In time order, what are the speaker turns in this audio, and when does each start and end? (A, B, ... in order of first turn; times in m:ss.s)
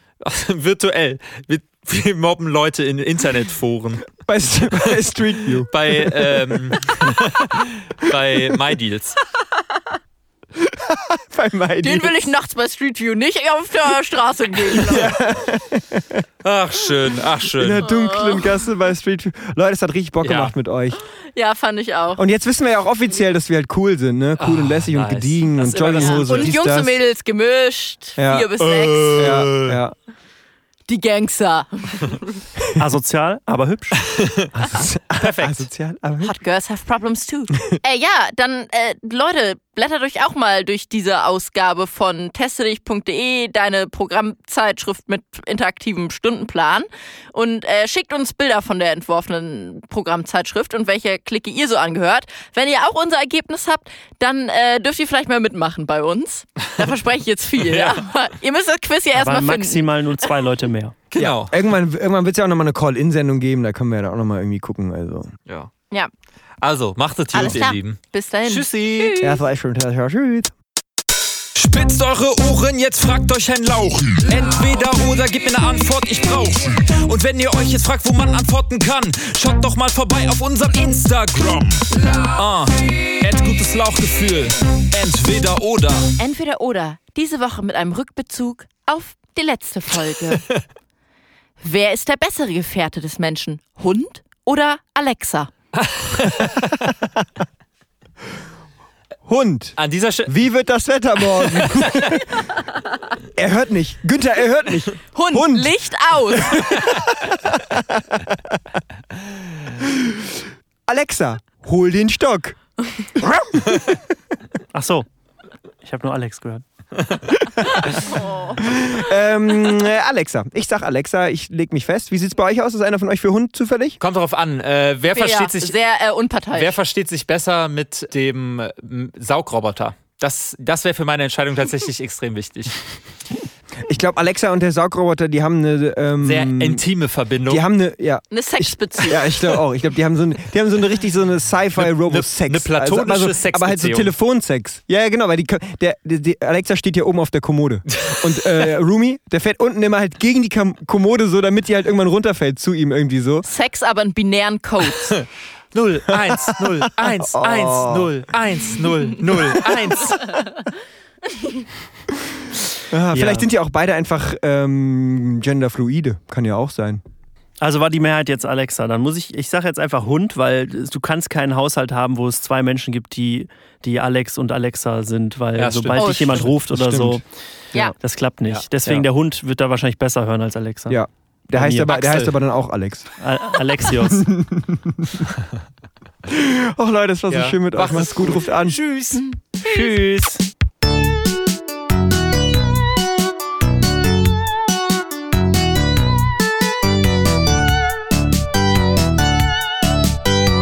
0:00.2-0:04.1 A
0:04.2-0:06.7 B
0:05.6-0:09.2 A
0:10.6-0:12.3 B
0:11.8-0:15.2 C
0:14.7-0:16.2 B
0:16.4-0:17.9 A
0:17.5-0:21.0 B
0:17.8-0:18.6 C
0:20.2-0:20.5 A
0:21.3-0:22.2 C
0:22.2-0:27.0 B
0:24.4-0:26.5 A
0:26.0-0:29.5 C
0:28.2-0:29.9 B
0:28.6-0:29.8 A
0:30.9-0:32.3 C
0:32.8-0:34.0 D
0:34.0-0:34.5 A
0:34.5-0:36.3 B
0:35.2-0:35.6 A
0:36.2-0:59.9 C
0:57.6-0:58.0 A
0:59.1-1:01.0 D
1:01.1-1:01.6 A
1:01.2-1:05.3 B
1:06.6-1:09.2 A
1:07.3-1:09.4 C
1:09.2-1:10.5 B
1:11.5-1:26.1 A
1:26.2-1:30.4 C
1:31.6-1:35.5 C
1:35.8-1:36.8 A
1:39.2-1:42.5 B
1:39.8-1:40.3 A
1:41.6-1:41.9 A
1:43.4-1:45.7 B
1:45.1-1:46.7 C
1:46.3-1:48.6 B
1:49.8-1:50.2 B
1:50.9-1:52.6 B
1:54.7-1:55.0 D
1:55.8-1:56.6 D
1:57.6-1:57.9 B
1:57.9-1:58.6 C
1:58.6-2:04.0 B
2:04.0-2:05.8 A
2:05.1-2:06.8 C
2:06.5-2:12.8 A
2:13.8-2:16.8 B
2:16.2-2:17.6 A
2:17.5-2:33.4 B
2:18.3-2:19.3 C
2:21.8-2:24.1 A
2:33.4-2:35.2 C
2:35.7-2:40.4 A
2:36.1-2:38.1 B
2:39.4-2:39.8 B
2:42.9-2:47.0 B
2:43.1-2:43.5 D
2:47.6-2:57.2 D
2:55.6-2:56.6 A
2:56.0-2:56.5 C
2:56.7-2:57.2 B
2:57.7-3:01.0 D
2:58.5-2:59.0 A
3:00.9-3:03.1 B
3:01.5-3:01.9 D
3:01.8-3:02.4 A
3:03.2-3:04.3 D
3:04.0-3:05.2 B
3:06.2-3:08.8 B
3:07.3-3:09.2 A
3:09.1-3:09.9 C
3:09.6-3:10.4 D